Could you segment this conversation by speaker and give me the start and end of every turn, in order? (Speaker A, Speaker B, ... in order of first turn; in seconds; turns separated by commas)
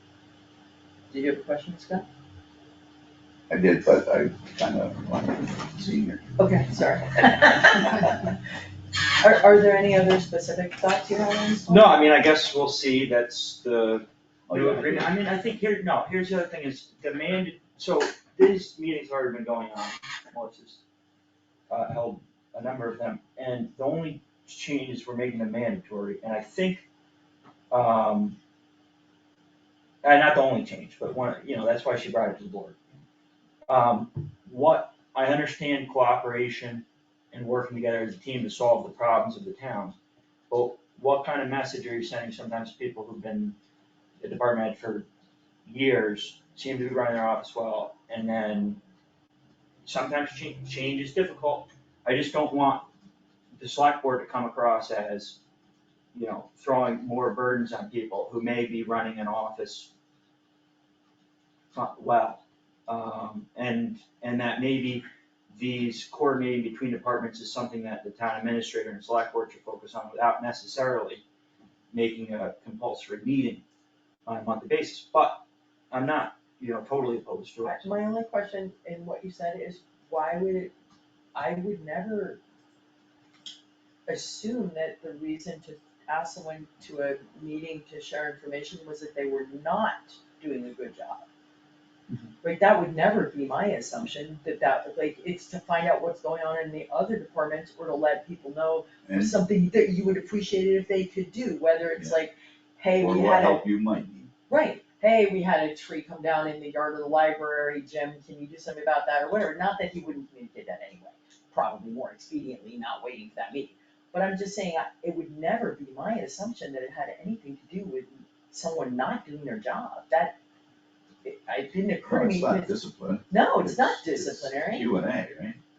Speaker A: 1.1-2.0, Speaker B: 3.5-6.2, Speaker A: 6.4-8.3, Speaker A: 9.2-12.1, Speaker C: 11.7-20.8, Speaker B: 14.5-15.1, Speaker C: 21.7-26.9, Speaker C: 27.7-28.4, Speaker C: 30.0-32.8, Speaker C: 33.7-40.0, Speaker C: 40.5-43.5, Speaker C: 44.2-45.1, Speaker C: 45.6-48.8, Speaker C: 49.9-52.9, Speaker C: 53.6-55.4, Speaker C: 56.1-59.9, Speaker C: 61.7-71.2, Speaker C: 71.9-73.6, Speaker C: 74.2-77.9, Speaker A: 77.6-80.7, Speaker A: 81.3-82.4, Speaker A: 84.1-91.2, Speaker C: 92.1-92.3, Speaker A: 92.4-103.7, Speaker B: 99.1-99.3, Speaker B: 102.9-104.3, Speaker A: 104.5-120.4, Speaker A: 121.2-122.7, Speaker B: 122.0-125.6, Speaker A: 123.3-124.9